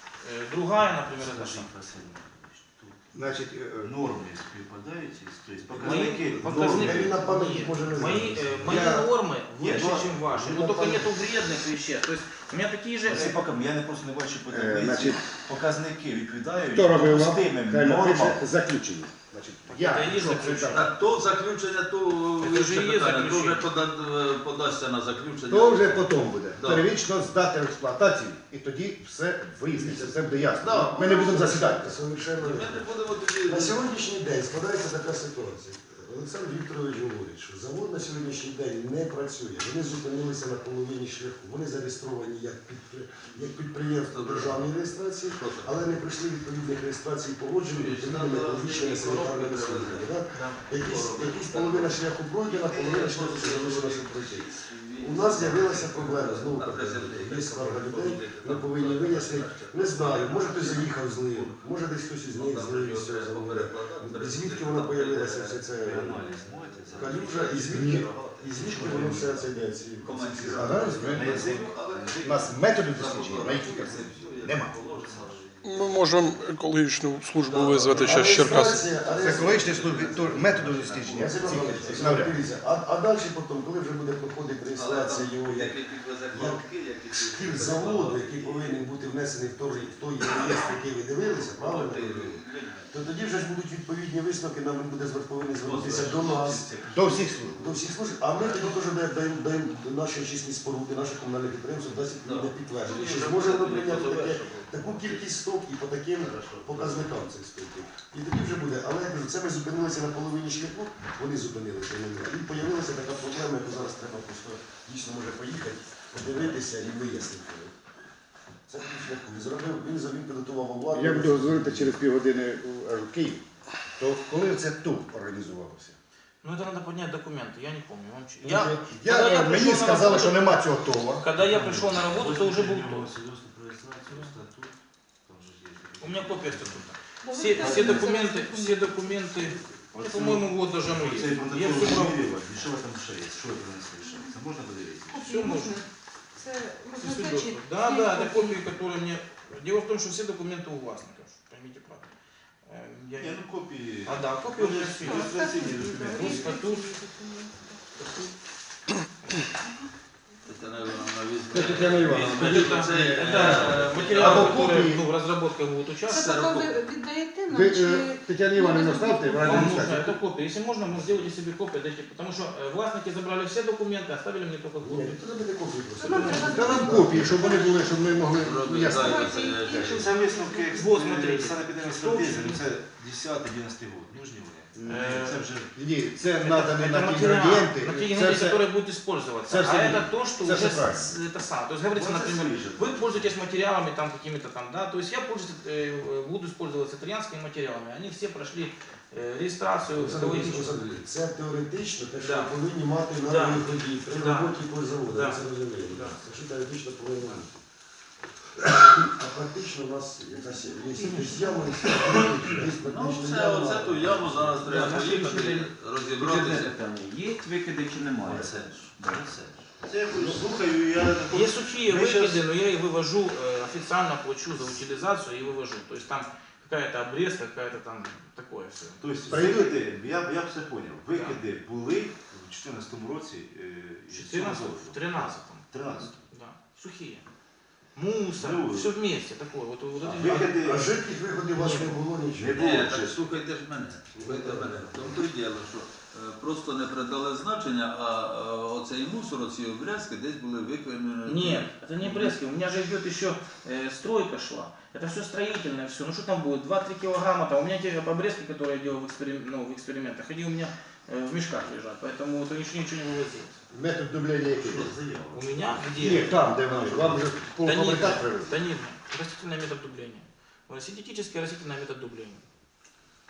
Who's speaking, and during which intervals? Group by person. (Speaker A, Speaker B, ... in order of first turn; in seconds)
Speaker A: 0.2-1.7, 5.8-13.4, 19.7-20.9, 22.4-23.7, 50.3-50.7, 126.4-130.6, 131.2-133.1, 136.0-142.2, 145.3-145.8, 147.0-152.1, 152.7-153.4, 154.1-155.3, 156.1-157.0, 162.1-166.2, 169.4-175.2, 180.8-182.7, 184.9-185.5, 186.4-200.9, 202.1-202.5, 203.2-206.2, 211.1-212.2, 214.7-215.7, 221.3-229.7, 231.1-231.4, 234.1-237.2, 237.9-240.5, 241.5-242.0, 251.2-263.6, 265.3-267.1, 267.6-272.4
Speaker B: 1.1-3.0, 3.8-7.2, 9.6-10.3, 13.1-18.5, 65.8-67.6, 68.6-69.1, 71.0-75.4, 79.4-82.2, 131.4-134.7, 135.3-136.9, 137.5-138.2, 139.9-145.4, 153.2-156.5, 179.7-185.7, 191.9-193.3, 214.7-215.2, 216.2-222.4, 229.0-236.2, 238.4-238.9, 240.0-240.9, 242.3-243.2, 244.2-245.1
Speaker C: 3.1-3.9, 8.6-9.1, 14.5-15.2, 16.6-20.9, 25.5-32.0, 67.6-68.1, 68.9-69.2, 70.5-71.4, 72.2-74.7, 79.2-82.4, 96.9-97.6, 120.9-123.4, 124.0-126.0, 128.4-131.2, 161.5-165.0, 167.5-170.2, 176.1-179.6, 184.8-188.6, 189.5-191.1, 229.3-229.7, 263.7-264.9, 266.0-268.6
Speaker D: 5.7-9.0, 9.6-11.2, 29.7-32.9, 33.5-66.2, 67.0-71.5, 77.9-80.5, 81.2-85.8, 86.3-96.7, 97.4-117.8, 118.7-122.0, 174.8-177.3, 199.9-207.5, 208.6-214.7, 240.4-242.6
Speaker E: 20.7-26.9, 30.6-31.4, 32.4-33.9, 44.0-44.8, 45.3-46.0, 47.7-50.2, 50.8-61.6, 62.3-69.5, 70.0-76.6, 77.4-82.2, 84.7-88.8, 89.7-92.9, 95.6-97.8, 98.3-98.8, 102.2-105.3, 106.2-107.1, 160.5-164.8, 166.1-166.8, 178.3-180.1, 212.8-216.8, 218.2-218.9, 242.6-252.3, 264.6-265.8, 266.8-267.2
Speaker F: 75.6-78.8
Speaker G: 137.2-139.5, 145.1-148.6, 155.1-158.0, 166.2-169.5, 176.0-178.0, 178.8-180.8